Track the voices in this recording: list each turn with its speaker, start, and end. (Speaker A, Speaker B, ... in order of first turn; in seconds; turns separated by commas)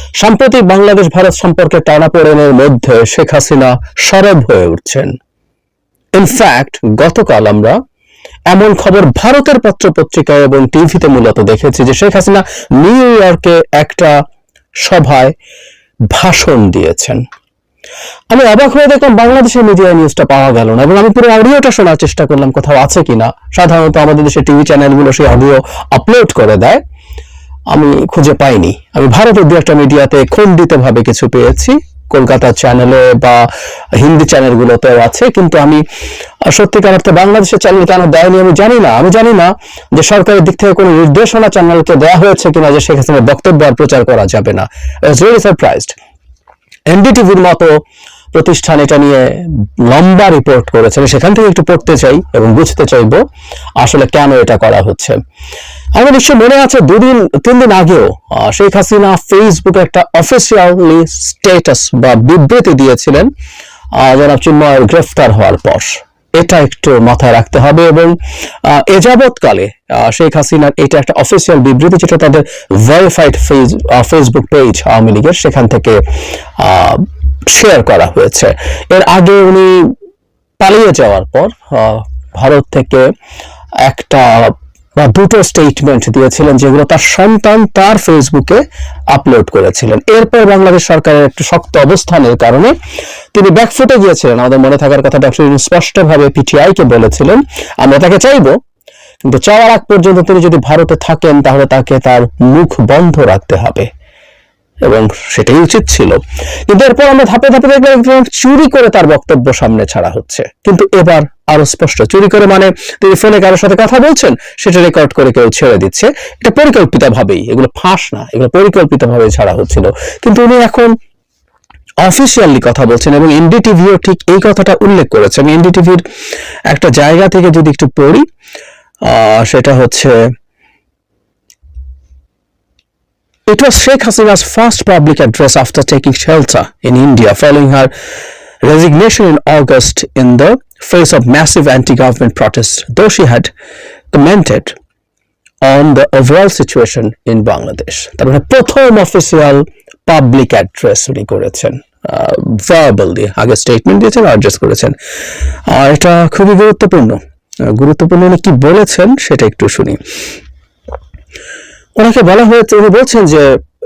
Speaker A: 0.2-5.1, Speaker A: 6.2-7.8, Speaker A: 8.5-14.2, Speaker A: 14.8-15.3, Speaker A: 16.1-17.2, Speaker A: 18.3-26.8, Speaker A: 27.7-33.4, Speaker A: 34.0-35.8, Speaker A: 36.5-46.0, Speaker A: 46.9-47.7, Speaker A: 48.3-49.2, Speaker A: 49.8-53.2, Speaker A: 53.8-55.2, Speaker A: 56.0-63.3, Speaker A: 64.0-76.0, Speaker A: 76.6-79.9, Speaker A: 80.6-83.0, Speaker A: 83.8-92.7, Speaker A: 93.3-98.5, Speaker A: 99.2-103.9, Speaker A: 104.9-106.2, Speaker A: 106.7-120.9, Speaker A: 122.0-126.0, Speaker A: 126.7-128.2, Speaker A: 129.1-130.1, Speaker A: 133.5-137.9, Speaker A: 138.6-143.5, Speaker A: 144.1-144.8, Speaker A: 145.7-154.9, Speaker A: 155.7-157.2, Speaker A: 157.7-160.0, Speaker A: 162.0-163.6